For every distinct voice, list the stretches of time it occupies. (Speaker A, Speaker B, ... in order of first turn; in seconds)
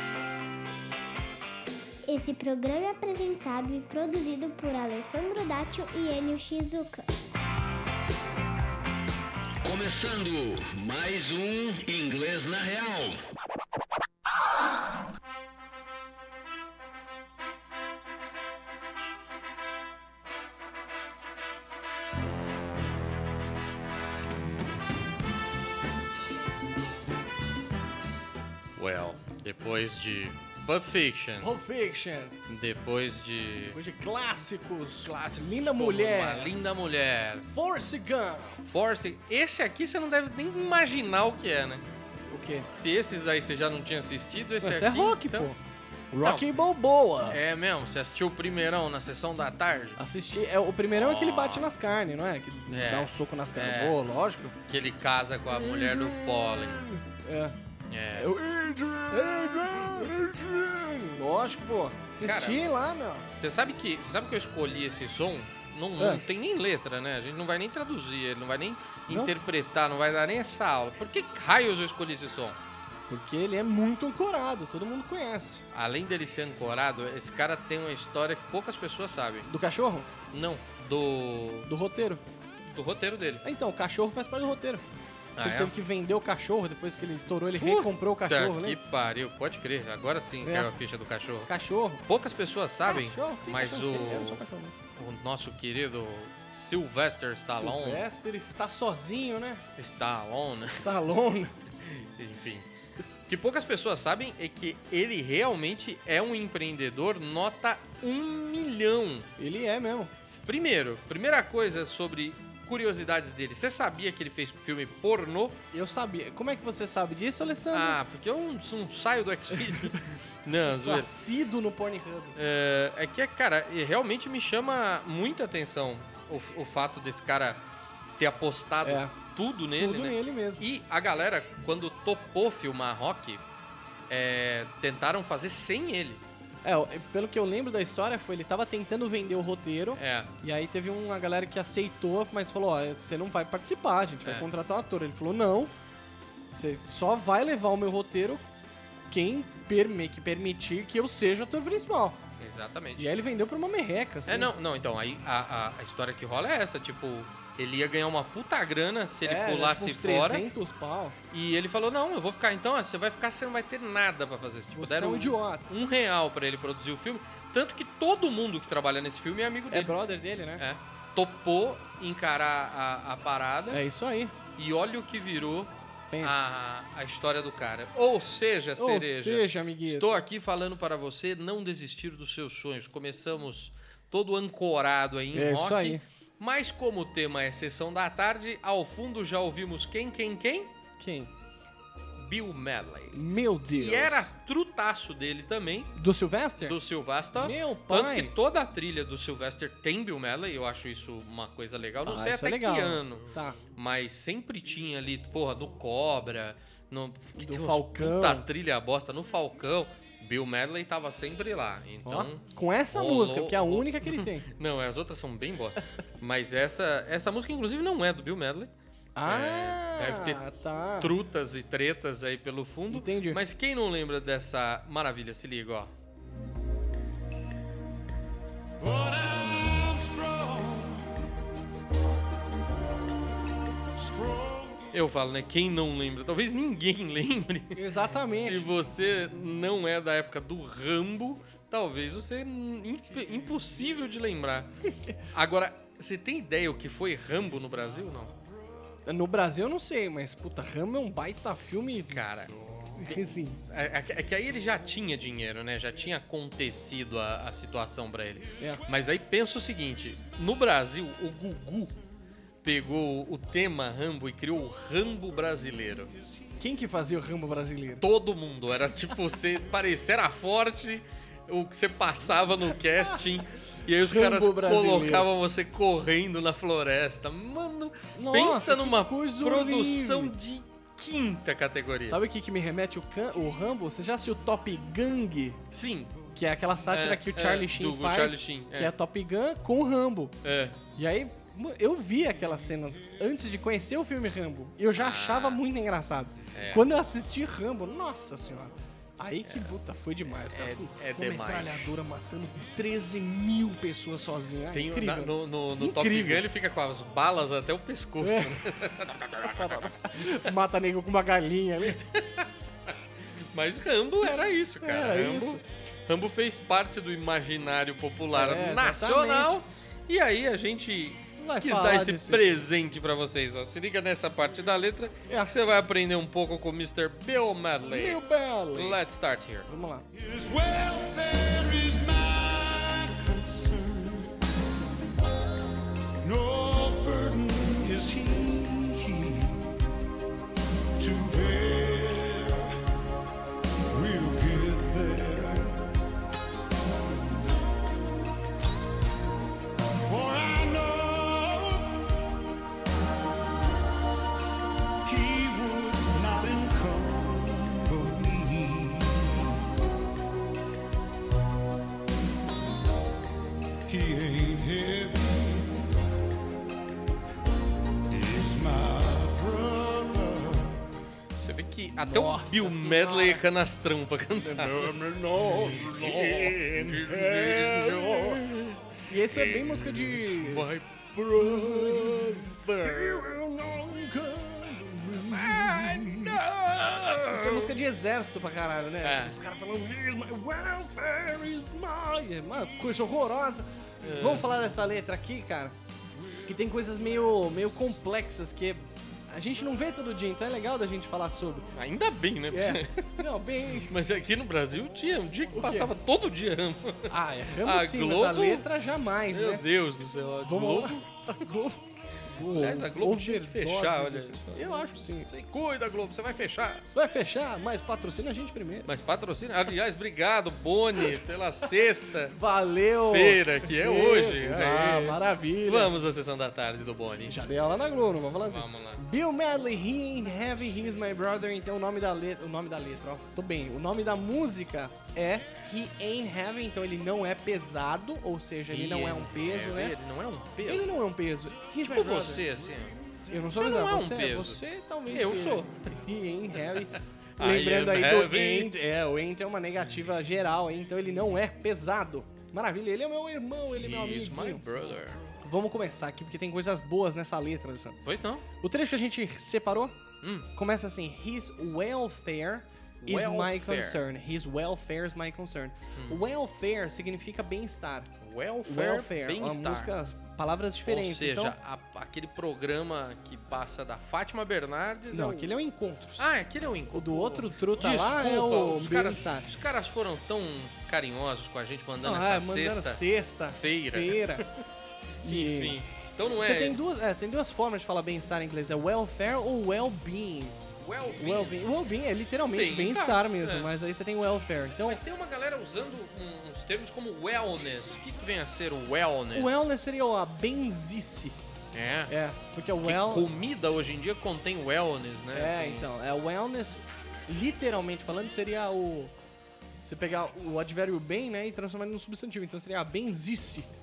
Speaker A: 2.1-7.1
Speaker B: 9.7-13.2
Speaker C: 28.8-31.5, 32.5-33.8, 35.0-37.5, 38.6-41.9, 42.7-45.5, 47.3-50.0, 50.9-51.7, 52.7-54.0, 54.7-56.9, 57.9-58.3, 62.2-62.8, 63.3-72.6, 75.7-79.5, 80.3-81.7, 82.7-83.4, 85.4-85.7, 87.6-91.5, 92.1-94.4, 95.0-98.0, 99.8-100.9, 101.8-102.7, 103.3-109.3, 110.2-115.6, 117.7-121.1, 122.4-127.6, 128.2-133.4, 134.1-136.2, 140.0-140.3, 152.4-153.1, 154.3-160.5, 161.3-169.9, 170.6-173.8, 174.6-190.7, 192.2-193.2, 193.7-195.9, 196.6-218.7, 219.3-220.4, 221.0-225.9, 234.9-244.7, 245.3-248.4, 252.1-262.0, 262.6-266.1, 268.0-282.2, 285.7-286.2, 286.9-288.9, 290.4-290.8, 294.9-295.6, 296.5-296.9, 299.4-299.7, 300.5-301.9, 304.7-310.5, 311.9-328.2, 328.8-329.7, 371.4-383.4, 385.2-387.8, 389.0-389.4, 394.0-394.5, 401.7-408.6, 409.3-411.1, 412.4-414.7, 415.2-416.9, 418.9-422.4, 423.1-427.4, 428.4-429.0, 438.7-440.9, 441.8-443.0, 443.5-445.9, 447.4-448.7, 453.8-455.2, 458.1-458.4, 460.2-460.5, 463.0-464.0, 466.0-466.2, 468.2-469.9, 470.9-475.5, 476.2-483.0, 483.6-484.5, 485.2-486.8, 490.8-491.6, 492.5-493.7, 494.9-499.7, 501.7-502.1, 502.8-505.9
Speaker D: 31.4-32.4, 33.7-36.5, 37.5-38.6, 42.3-42.7, 44.6-45.6, 46.1-47.4, 50.0-54.5, 55.5-57.5, 58.1-63.3, 73.1-75.6, 79.5-80.1, 81.7-82.2, 83.4-84.8, 85.4-88.8, 90.4-90.7, 91.5-92.0, 92.9-94.7, 97.5-99.6, 100.8-101.5, 109.4-110.1, 115.7-118.0, 119.7-120.0, 120.7-122.4, 128.8-129.1, 129.8-130.7, 136.6-145.7, 146.5-148.4, 149.1-152.2, 153.0-154.5, 159.2-161.2, 164.8-165.7, 169.7-170.6, 173.7-174.3, 176.1-176.4, 178.8-180.2, 185.3-186.0, 191.0-191.3, 193.1-194.3, 196.0-196.8, 197.3-198.3, 202.1-203.6, 207.4-208.5, 212.1-214.5, 219.2-221.1, 222.9-223.4, 237.7-238.7, 249.1-252.2, 253.0-253.6, 266.6-268.0, 274.0-275.3, 278.2-280.3, 282.1-285.6, 286.4-290.4, 291.0-306.4, 308.2-308.8, 309.4-312.0, 314.8-315.6, 318.3-319.6, 321.4-322.4, 325.3-325.5, 327.9-329.0, 329.7-330.1, 372.1-373.4, 374.4-378.5, 379.1-380.7, 381.4-386.4, 387.0-395.8, 396.4-401.7, 402.5-403.9, 405.5-405.9, 407.1-409.6, 410.4-415.3, 416.9-418.9, 422.3-425.9, 427.3-439.9, 440.7-442.5, 443.3-454.8, 455.4-458.0, 458.6-460.0, 460.5-468.1, 468.6-471.6, 475.1-476.3, 476.9-479.5, 482.0-484.5, 485.2-485.8, 486.3-490.6, 491.2-495.0, 499.3-501.4, 502.1-503.3, 505.3-509.1, 509.9-513.7
Speaker E: 228.8-231.3, 233.9-235.0, 330.1-334.5, 336.2-339.8, 341.0-342.8, 343.9-345.9, 350.1-352.3, 355.1-359.8, 363.9-366.0, 368.1-370.9